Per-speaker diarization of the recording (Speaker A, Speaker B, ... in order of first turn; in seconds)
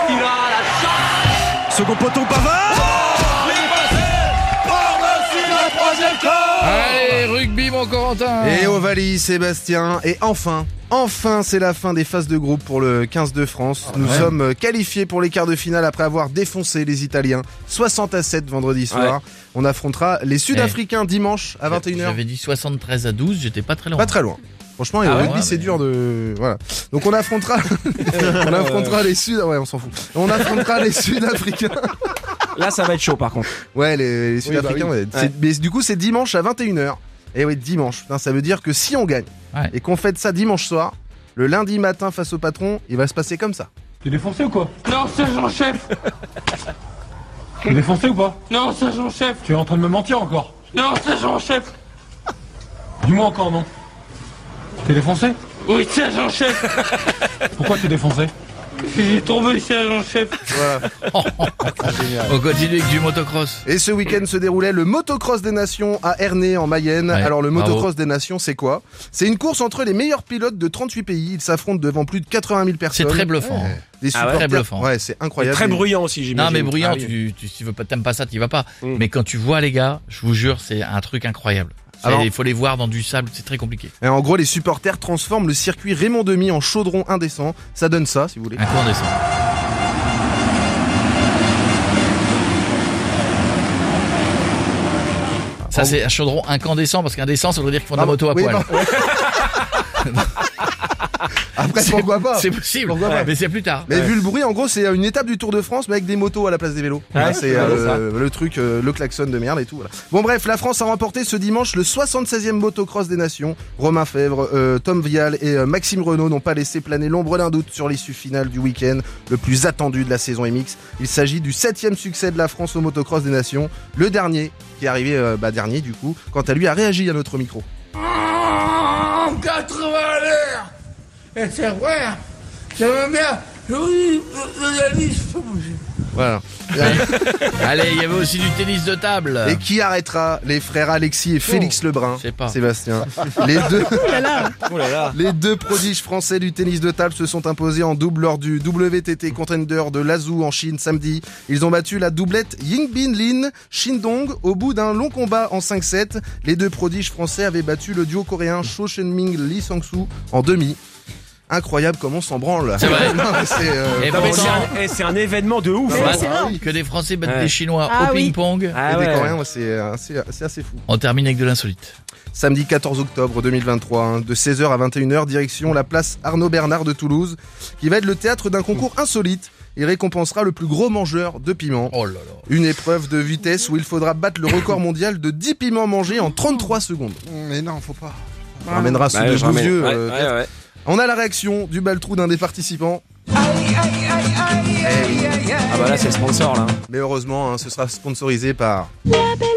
Speaker A: 1.7-3.1, 5.5-6.5, 18.9-19.1, 25.1-25.3, 28.1-29.0, 32.5-33.5, 34.4-35.3, 74.1-74.4, 75.4-77.1, 98.8-99.6, 107.1-108.0, 144.6-145.2, 162.8-163.1, 164.1-166.2, 167.2-167.5, 168.7-169.3, 189.1-190.5, 193.5-194.9, 195.4-196.8
Speaker B: 6.6-8.8, 14.0-14.3, 20.5-20.8, 21.7-24.2, 25.0-25.8, 60.9-63.6, 67.1-67.9, 72.9-74.9, 76.3-83.9, 88.5-89.1, 95.7-98.7, 100.0-100.3, 101.7-103.9, 136.8-139.6, 142.1-142.6, 162.8-163.3, 163.9-164.7, 165.9-168.8, 170.9-171.9, 181.9-182.4
Speaker C: 8.4-22.2, 24.0-32.2, 33.7-43.7, 60.5-60.9, 61.8-62.1, 63.6-75.8, 82.0-82.3, 84.0-88.6, 95.7-96.0, 98.0-99.1, 101.5-103.3, 103.9-127.7, 136.1-137.2, 139.4-144.4, 145.1-160.8, 161.5-164.7, 165.9-166.6, 168.9-170.8, 172.3-193.0, 194.8-195.5, 196.9-198.9
Speaker D: 44.0-44.8, 47.7-48.4, 49.4-50.7, 53.0-53.7, 54.8-55.4, 57.5-58.3
Speaker E: 44.8-45.9, 48.5-49.4, 50.7-51.7, 55.6-56.7, 58.8-60.5
Speaker F: 128.1-130.7, 131.3-132.2, 132.8-135.8, 143.9-144.6, 165.9-166.5, 167.9-168.3, 188.7-189.0